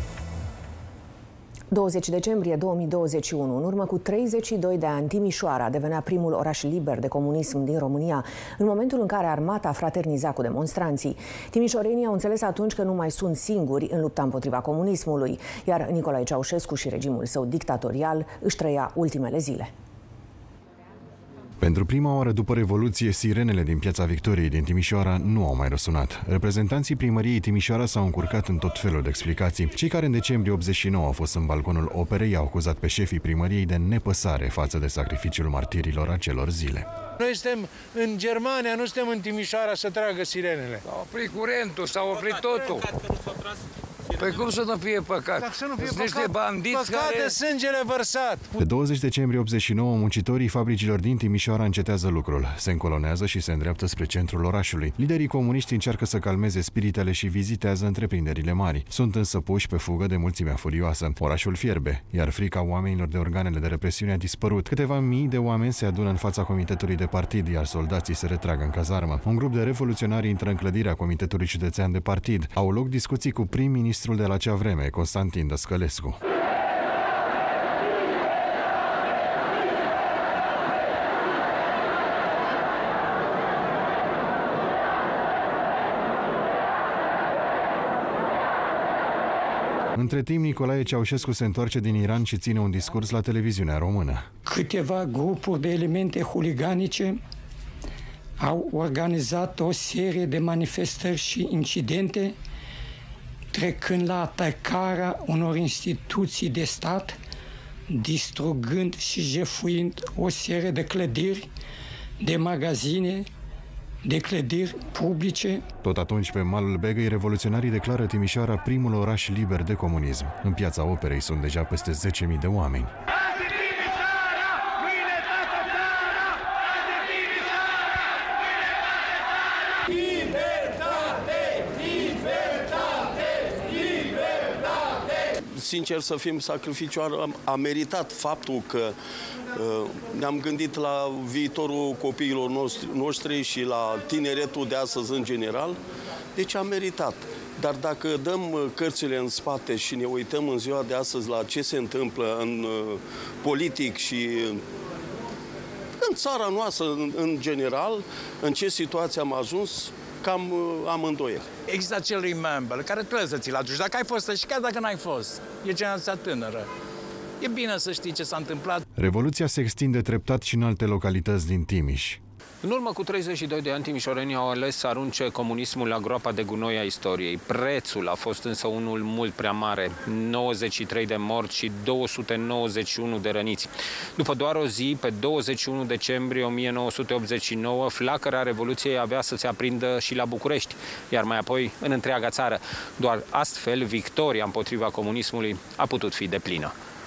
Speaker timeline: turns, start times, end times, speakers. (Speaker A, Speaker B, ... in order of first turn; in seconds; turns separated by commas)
Speaker A: 1.7-19.7, Speaker B: 21.6-36.9, Speaker C: 37.2-40.8, Speaker D: 40.9-42.9, Speaker C: 42.5-42.8, Speaker D: 44.1-47.3, Speaker C: 45.3-48.5, Speaker B: 48.6-76.2, Speaker B: 90.0-94.2, Speaker E: 94.5-97.2, Speaker E: 98.4-102.3, Speaker E: 103.5-107.2, Speaker E: 107.9-111.5, Speaker E: 112.2-113.2, Speaker E: 114.0-115.6, Speaker B: 115.8-122.9, Speaker F: 135.6-138.9, Speaker F: 139.5-145.8, Speaker F: 146.3-154.6, Speaker F: 156.0-161.5, Speaker G: 161.7-166.7, Speaker G: 167.4-168.8, Speaker B: 168.9-172.2, Speaker H: 172.6-196.7